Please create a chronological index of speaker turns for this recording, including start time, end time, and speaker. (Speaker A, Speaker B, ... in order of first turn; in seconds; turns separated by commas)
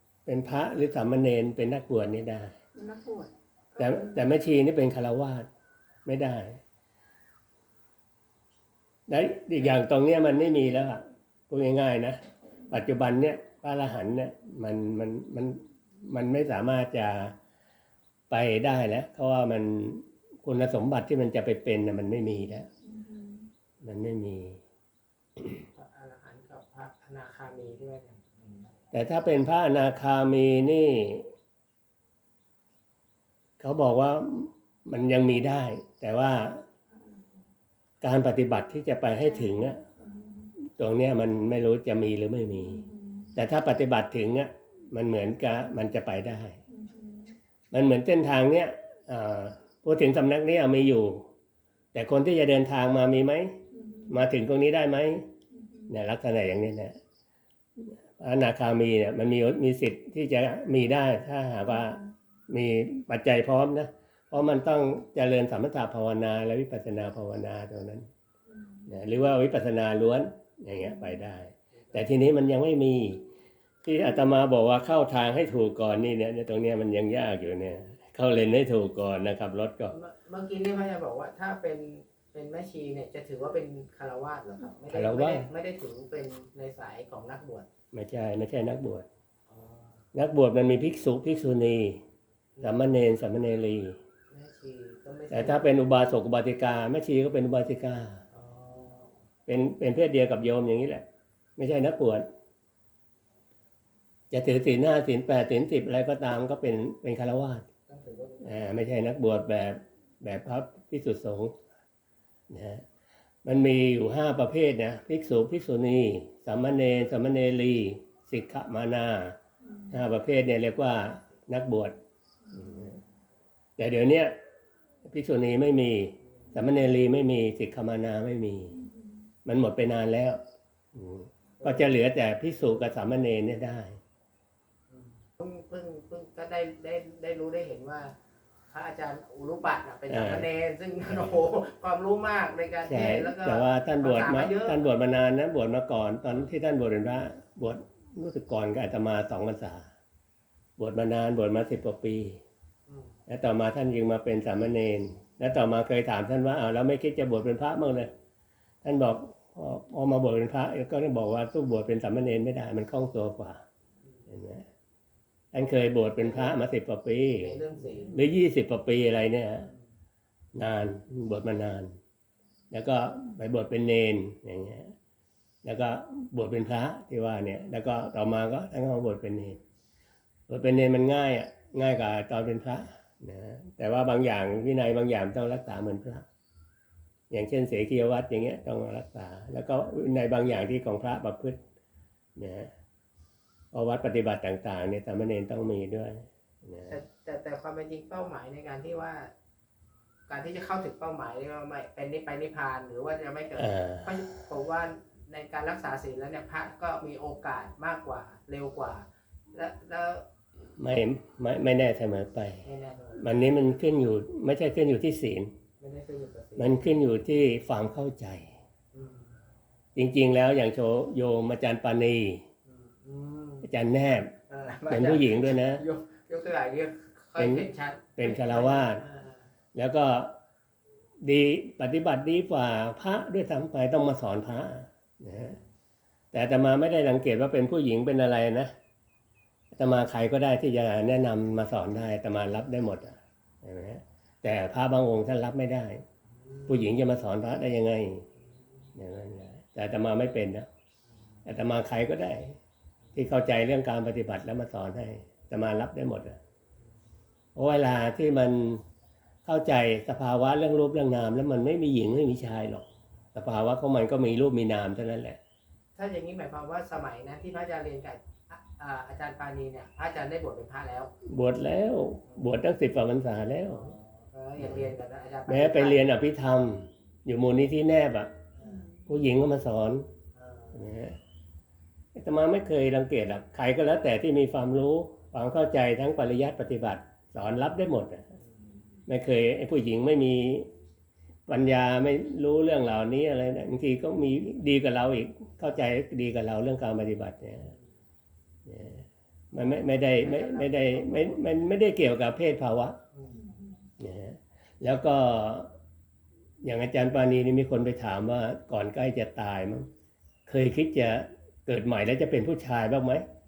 Speaker A: 0.3-2.5, Speaker B: 2.7-4.3, Speaker A: 3.8-5.5, Speaker A: 6.0-6.6, Speaker A: 9.1-12.2, Speaker A: 12.7-17.4, Speaker A: 18.3-22.7, Speaker B: 22.9-23.5, Speaker A: 23.8-24.6, Speaker A: 25.4-25.6, Speaker C: 25.8-28.7, Speaker A: 28.9-31.3, Speaker A: 33.6-36.6, Speaker A: 38.0-39.8, Speaker B: 39.2-40.5, Speaker A: 40.8-46.6, Speaker B: 42.6-43.3, Speaker B: 46.7-47.4, Speaker A: 47.7-51.3, Speaker A: 51.9-55.3, Speaker B: 53.7-54.2, Speaker B: 55.5-55.9, Speaker A: 55.9-57.0, Speaker A: 57.8-68.1, Speaker B: 68.5-68.9, Speaker A: 68.9-73.3, Speaker A: 73.8-80.0, Speaker C: 79.9-87.7, Speaker A: 84.9-85.5, Speaker A: 87.9-89.1, Speaker C: 89.5-89.9, Speaker A: 90.1-92.0, Speaker C: 92.6-92.8, Speaker A: 92.6-94.0, Speaker C: 94.3-95.7, Speaker A: 95.3-98.2, Speaker C: 98.3-99.1, Speaker A: 99.5-101.0, Speaker A: 101.6-102.3, Speaker A: 104.3-107.7, Speaker C: 107.9-108.6, Speaker A: 108.4-111.5, Speaker A: 112.5-112.8, Speaker A: 113.5-119.4, Speaker B: 119.6-120.0, Speaker A: 119.9-122.0, Speaker B: 122.5-122.9, Speaker A: 122.5-123.0, Speaker A: 123.8-124.3, Speaker A: 125.1-128.8, Speaker A: 129.4-130.4, Speaker A: 130.9-134.0, Speaker C: 131.6-131.9, Speaker C: 134.9-138.1, Speaker C: 138.7-144.8, Speaker A: 140.1-140.5, Speaker A: 141.1-141.4, Speaker A: 142.8-149.9, Speaker A: 150.8-152.4, Speaker C: 152.9-153.1, Speaker A: 153.3-158.1, Speaker A: 158.8-163.6, Speaker A: 164.3-164.7, Speaker A: 165.5-169.7, Speaker C: 166.0-166.6, Speaker C: 167.3-168.2, Speaker A: 170.6-171.9, Speaker A: 172.7-174.9, Speaker A: 175.6-179.6, Speaker A: 180.5-186.3, Speaker A: 187.3-191.6, Speaker A: 192.4-192.7, Speaker A: 193.7-197.0, Speaker C: 196.9-199.3, Speaker C: 200.3-210.2, Speaker A: 203.6-204.3, Speaker A: 210.8-215.5, Speaker C: 212.7-213.2, Speaker C: 215.8-216.8, Speaker A: 216.6-218.6, Speaker C: 218.9-219.3, Speaker A: 219.9-222.4, Speaker C: 222.7-223.7, Speaker A: 223.6-224.3, Speaker C: 224.5-229.4, Speaker A: 224.9-225.8, Speaker A: 227.4-229.0, Speaker A: 229.7-230.4, Speaker A: 231.2-235.6, Speaker C: 235.3-235.6, Speaker A: 236.3-238.7, Speaker A: 239.7-246.0, Speaker C: 246.4-246.9, Speaker A: 246.7-248.3, Speaker A: 249.0-250.7, Speaker A: 251.5-252.6, Speaker A: 253.2-256.4, Speaker A: 257.6-258.8, Speaker A: 259.4-265.4, Speaker C: 266.0-271.1, Speaker A: 271.2-273.9, Speaker C: 273.7-276.1, Speaker A: 274.6-274.9, Speaker A: 275.5-278.3, Speaker C: 278.6-278.9, Speaker A: 279.1-280.1, Speaker C: 280.4-280.9, Speaker A: 280.7-281.2, Speaker A: 282.1-288.2, Speaker A: 289.1-290.7, Speaker A: 291.5-297.7, Speaker A: 298.7-303.0, Speaker C: 299.6-301.5, Speaker C: 303.1-303.5, Speaker B: 303.5-303.8, Speaker A: 304.0-305.7, Speaker A: 306.6-309.9, Speaker A: 310.5-313.2